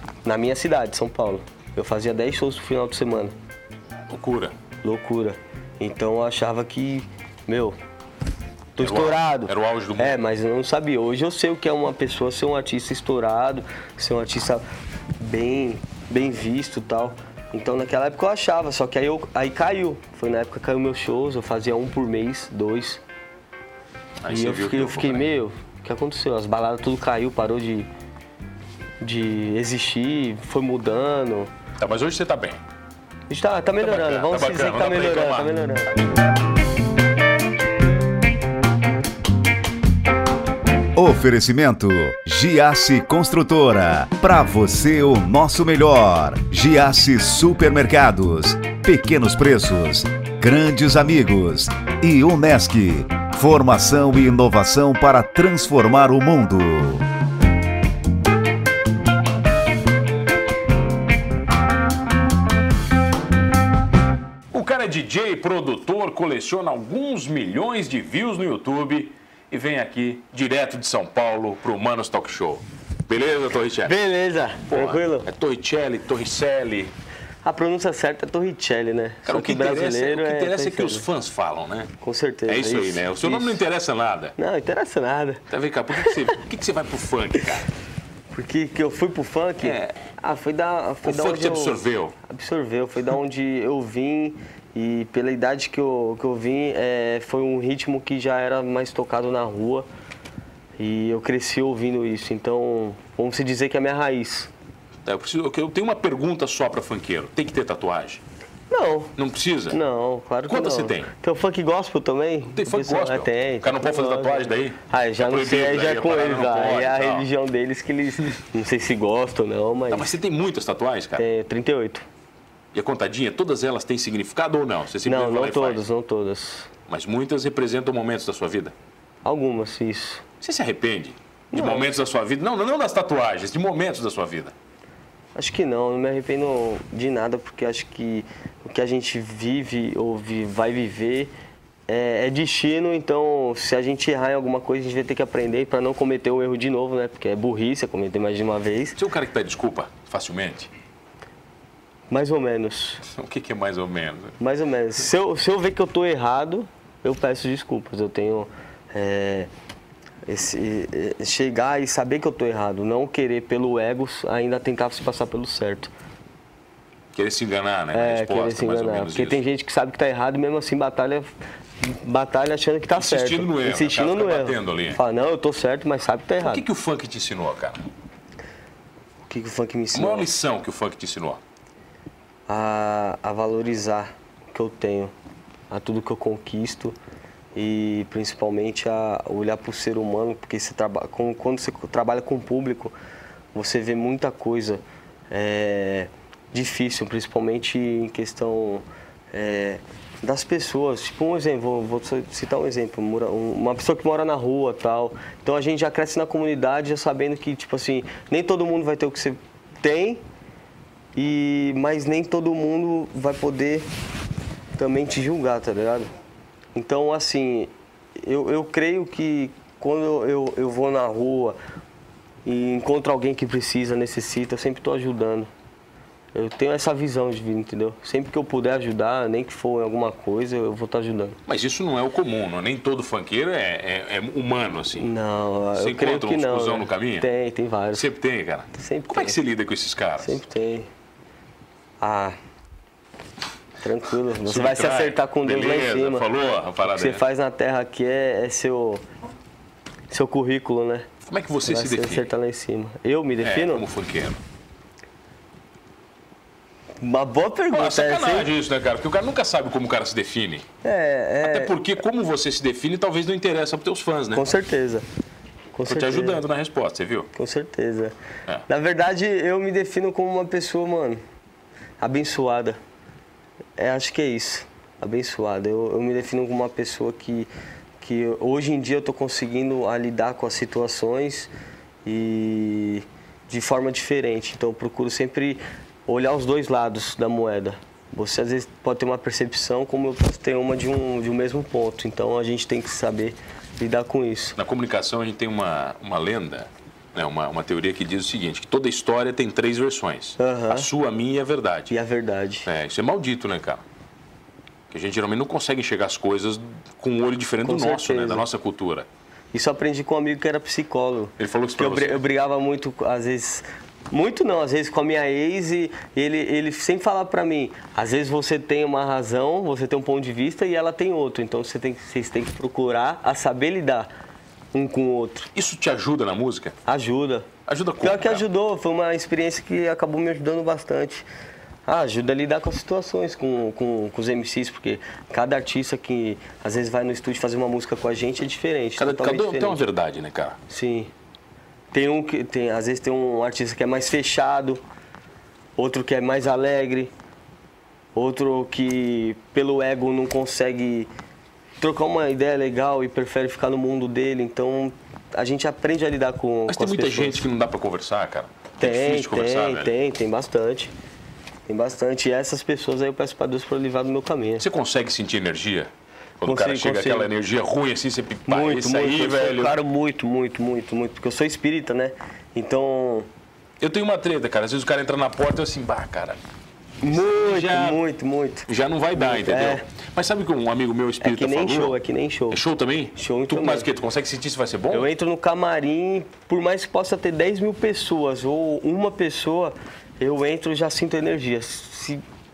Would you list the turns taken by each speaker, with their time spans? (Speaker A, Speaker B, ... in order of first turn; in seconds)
Speaker A: 0.2-3.3, 4.8-7.8, 8.8-14.6, 15.2-23.0, 24.3-27.9, 29.0-31.5, 33.3-35.9, 73.8-75.3, 77.4-81.0, 82.0-83.6, 84.4-85.4, 88.3-99.9, 100.8-104.5, 108.7-109.1, 109.7-120.1, 121.2-122.0, 125.0-126.7, 129.2-130.2, 131.5-131.9, 135.3-141.3, 141.9-149.0, 152.1-153.0, 154.4-159.5, 160.3-165.9, 167.9-176.6, 179.3-180.3, 182.5-185.1, 185.7-186.9, 187.5-192.9, 193.5-210.2, 211.1-213.9, 214.7-216.1, 216.7-221.6, 222.4-225.5, 226.3-231.4, 234.9-238.1, 238.7-239.4, 240.2-240.9, 242.0-242.3, 243.8-246.2, 246.8-249.0, 250.1-251.1, 251.6-253.8, 257.0-258.5, 260.8-261.7, 264.3-265.0, 265.7-266.4, 267.3-268.1, 268.7-271.2, 272.0-272.8, 273.8-277.5, 278.0-281.5, 282.0-294.6, 300.4-300.9, 301.9-302.7, 307.6-308.4, 309.5-324.1, 324.7-325.5, 326.8-327.5, 328.0-331.2, 331.9-339.8, 340.7-341.1, 341.9-344.8, 345.8-347.1, 348.1-351.1, 351.8-357.4, 358.8-360.9, 361.7-364.6, 366.4-367.3, 368.5-373.3, 377.0-379.8, 381.2-382.6, 383.1-383.9, 384.9-392.2
Speaker B: 4.1-4.5, 8.8-10.2, 24.2-25.2, 31.8-32.6, 33.8-35.5, 64.5-73.9, 74.7-76.9, 79.3-81.9, 82.5-84.3, 85.5-87.7, 89.6-90.0, 91.0-92.2, 105.0-108.2, 109.2-109.8, 110.5-111.1, 112.5-117.3, 119.9-121.2, 122.7-125.8, 126.9-128.7, 130.4-134.5, 149.0-150.7, 153.0-154.3, 167.1-169.4, 172.9-175.0, 176.4-177.8, 179.9-181.4, 231.5-235.1, 235.7-237.3, 237.9-240.4, 244.4-247.2, 251.2-252.3, 253.4-254.4, 257.7-260.6, 261.4-264.4, 265.9-267.3, 294.6-301.9, 302.6-303.8, 304.9-309.1, 311.4-312.2, 325.5-326.7, 327.7-328.4, 339.0-340.6, 356.7-359.9, 364.6-365.9, 366.4-369.8, 373.8-376.4, 377.1-378.0, 378.7-382.0, 382.5-385.1
Speaker C: 41.0-57.0